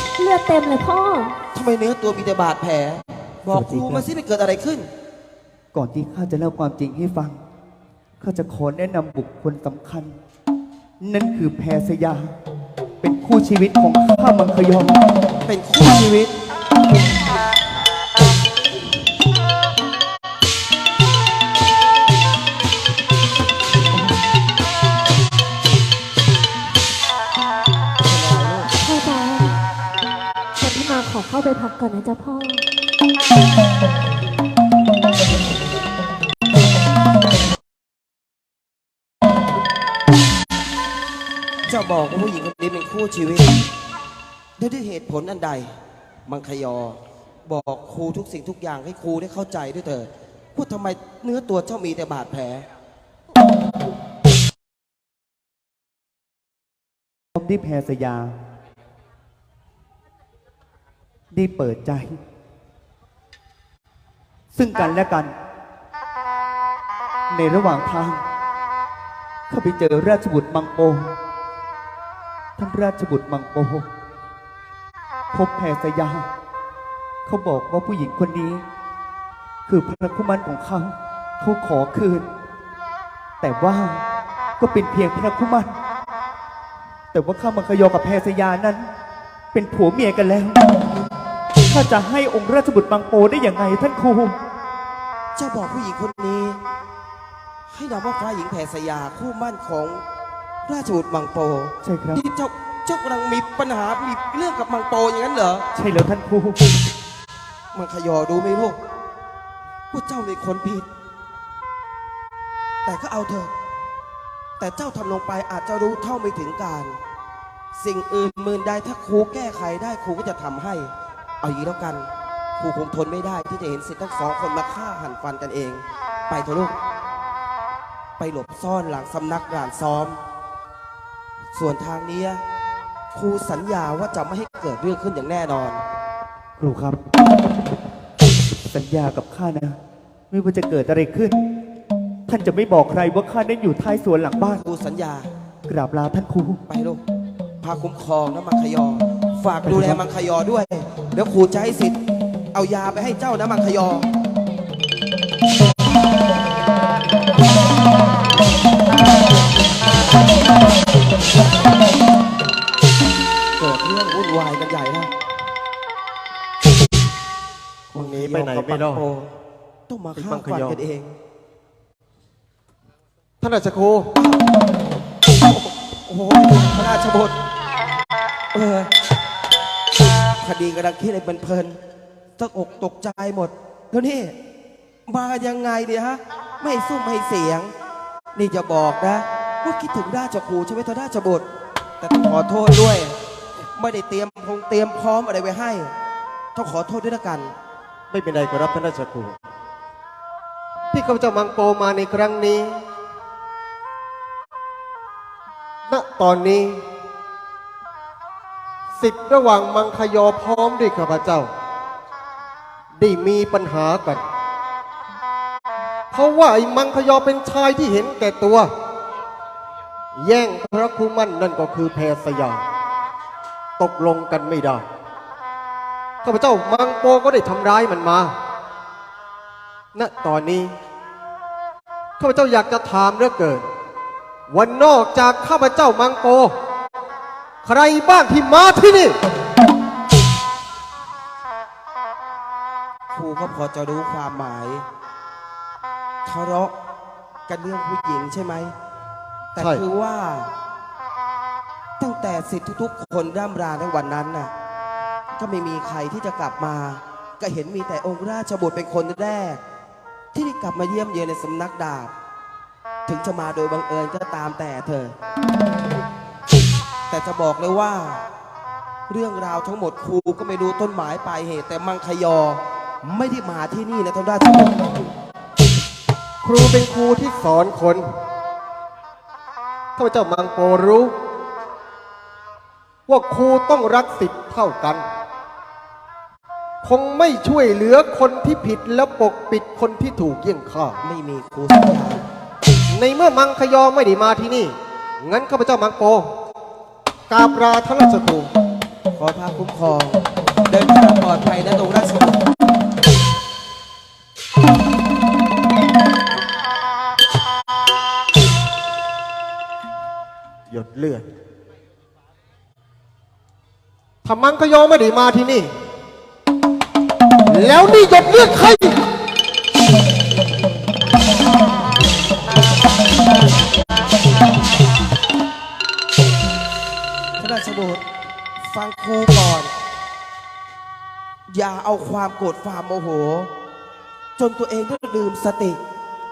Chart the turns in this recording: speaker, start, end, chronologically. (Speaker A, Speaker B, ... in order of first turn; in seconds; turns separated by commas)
Speaker A: 0.2-1.3, Speaker B: 1.5-4.9, Speaker C: 3.5-4.1, Speaker C: 5.7-7.4, Speaker C: 8.2-10.1, Speaker C: 11.0-12.3, Speaker C: 13.0-15.0, Speaker B: 15.4-16.4, Speaker B: 28.0-28.7, Speaker A: 28.8-29.6, Speaker A: 30.6-32.6, Speaker B: 41.7-43.6, Speaker B: 44.6-45.7, Speaker B: 46.2-52.7, Speaker C: 57.4-58.3, Speaker C: 61.3-62.2, Speaker C: 64.5-65.3, Speaker C: 67.3-68.2, Speaker C: 69.5-71.1, Speaker C: 72.6-73.8, Speaker C: 75.3-76.3, Speaker C: 77.2-78.6, Speaker C: 79.7-82.3, Speaker C: 83.4-84.0, Speaker C: 84.6-85.7, Speaker C: 87.1-88.8, Speaker C: 89.5-90.6, Speaker C: 91.7-94.3, Speaker B: 95.3-96.6, Speaker B: 97.7-100.0, Speaker B: 100.7-105.7, Speaker C: 101.8-102.2, Speaker C: 105.7-106.6, Speaker B: 107.7-108.8, Speaker B: 109.9-110.9, Speaker B: 112.8-113.5, Speaker B: 114.6-117.0, Speaker B: 117.7-126.8, Speaker B: 128.2-130.2, Speaker B: 131.5-132.4, Speaker B: 133.1-135.8, Speaker C: 136.6-137.0, Speaker C: 138.6-139.8, Speaker C: 140.3-141.4, Speaker C: 142.3-144.6, Speaker B: 144.5-145.3, Speaker C: 145.7-146.6, Speaker B: 146.7-147.0, Speaker B: 147.6-152.0, Speaker C: 149.6-150.0, Speaker B: 152.5-154.1, Speaker B: 163.6-165.1, Speaker D: 167.9-169.0, Speaker B: 167.9-169.3, Speaker B: 169.9-171.2, Speaker D: 170.1-170.8, Speaker D: 173.4-174.1, Speaker B: 174.2-174.4, Speaker B: 175.4-177.3, Speaker B: 178.5-178.9, Speaker B: 180.4-181.8, Speaker B: 182.4-184.4, Speaker B: 185.1-187.7, Speaker B: 188.3-191.4, Speaker B: 192.0-193.2, Speaker B: 193.8-195.9, Speaker B: 196.5-197.5, Speaker D: 198.1-199.3, Speaker D: 200.9-202.8, Speaker D: 205.9-206.8, Speaker D: 208.9-211.5, Speaker D: 213.0-214.2, Speaker D: 216.1-218.7, Speaker D: 220.2-222.6, Speaker D: 223.8-224.8, Speaker D: 226.2-228.3, Speaker D: 229.9-230.7, Speaker D: 232.2-233.7, Speaker D: 234.5-236.5, Speaker D: 237.6-239.2, Speaker B: 243.1-244.8, Speaker B: 246.2-246.7, Speaker B: 247.5-248.7, Speaker B: 249.5-250.5, Speaker D: 249.6-249.8, Speaker B: 252.0-254.5, Speaker B: 255.3-259.6, Speaker B: 260.3-262.1, Speaker B: 263.1-265.1, Speaker B: 267.1-268.2, Speaker B: 269.1-274.8, Speaker D: 276.4-278.0, Speaker D: 280.0-281.1, Speaker D: 283.1-285.0, Speaker D: 286.8-291.0, Speaker B: 291.0-292.2, Speaker D: 292.9-296.2, Speaker D: 297.3-298.5, Speaker B: 299.1-302.4, Speaker D: 310.7-311.2, Speaker D: 314.2-315.7, Speaker D: 317.5-319.0, Speaker B: 327.4-328.0, Speaker B: 328.6-329.7, Speaker B: 331.5-333.5, Speaker B: 334.4-335.8